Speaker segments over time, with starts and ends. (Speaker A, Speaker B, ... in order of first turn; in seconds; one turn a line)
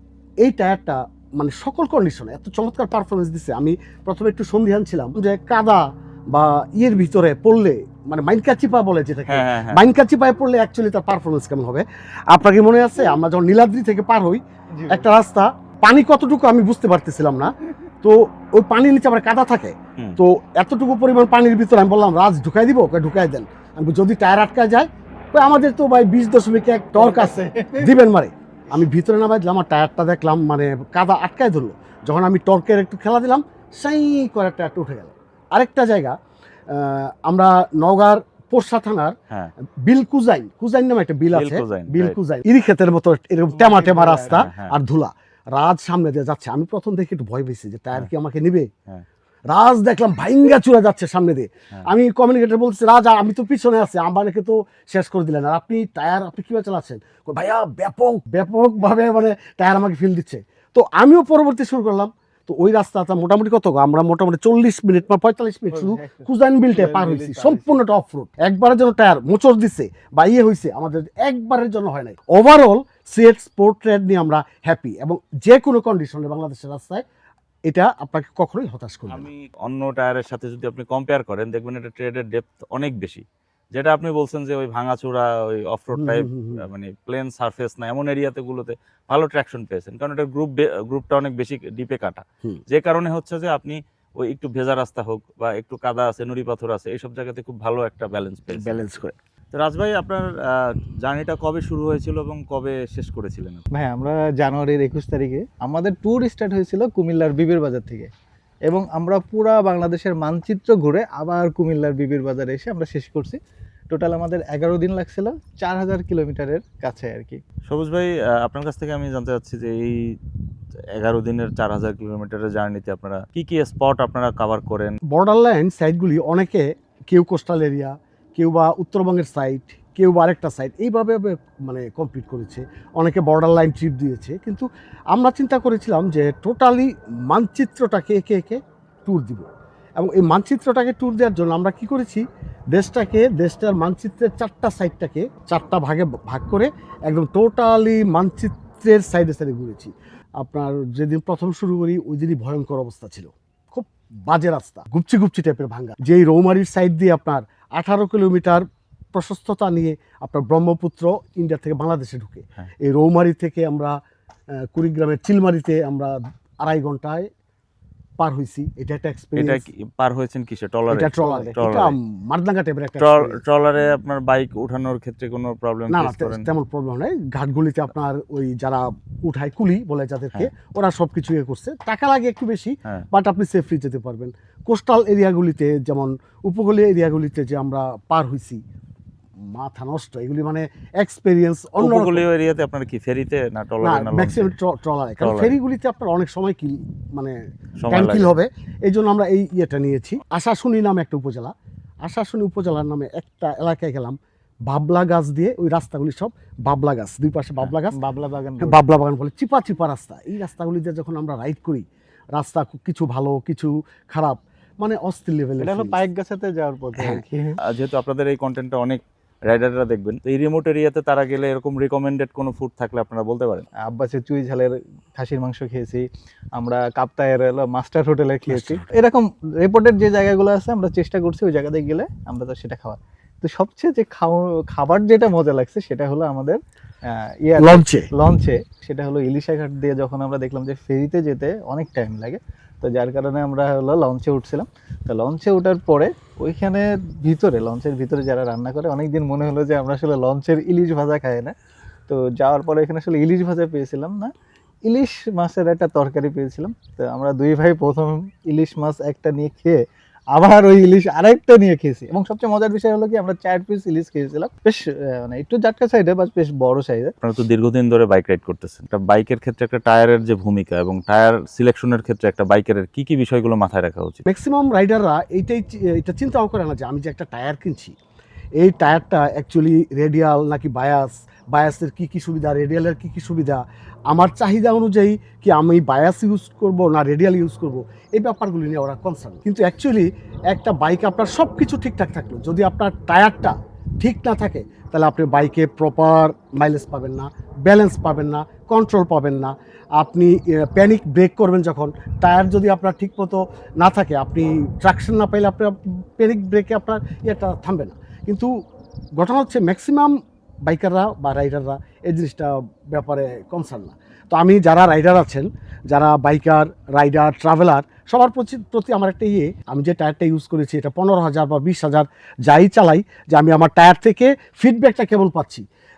Speaker A: 0.4-36.1
Speaker B: 9.3-9.9
Speaker C: 14.7-15.1
Speaker C: 27.0-28.0
Speaker A: 36.7-39.1
Speaker A: 39.8-48.7
Speaker B: 41.3-42.2
Speaker C: 43.5-44.5
Speaker B: 44.3-44.7
Speaker A: 49.5-77.0
Speaker C: 65.7-67.8
Speaker A: 77.7-79.3
Speaker B: 79.1-83.2
Speaker B: 83.7-98.9
Speaker A: 85.9-86.6
Speaker A: 98.5-99.2
Speaker B: 99.5-103.6
Speaker C: 103.7-108.1
Speaker C: 108.7-113.4
Speaker C: 113.9-117.4
Speaker B: 117.7-120.2
Speaker B: 121.0-125.0
Speaker A: 125.1-163.9
Speaker A: 164.7-167.3
Speaker A: 168.2-169.7
Speaker B: 169.4-172.0
Speaker A: 170.9-173.4
Speaker C: 171.2-171.6
Speaker B: 173.0-176.5
Speaker A: 175.9-188.6
Speaker A: 189.5-192.2
Speaker B: 191.8-194.5
Speaker A: 193.8-197.3
Speaker B: 195.2-195.6
Speaker B: 197.8-198.3
Speaker A: 197.9-208.0
Speaker C: 207.9-208.8
Speaker A: 208.6-216.0
Speaker C: 215.6-217.6
Speaker A: 217.0-217.2
Speaker B: 217.7-223.7
Speaker C: 223.8-226.0
Speaker C: 226.6-251.5
Speaker A: 228.5-228.9
Speaker A: 237.6-238.1
Speaker C: 252.1-254.3
Speaker C: 254.8-259.8
Speaker C: 260.3-267.1
Speaker B: 267.2-274.2
Speaker A: 274.3-277.9
Speaker A: 278.6-308.5
Speaker A: 309.2-325.6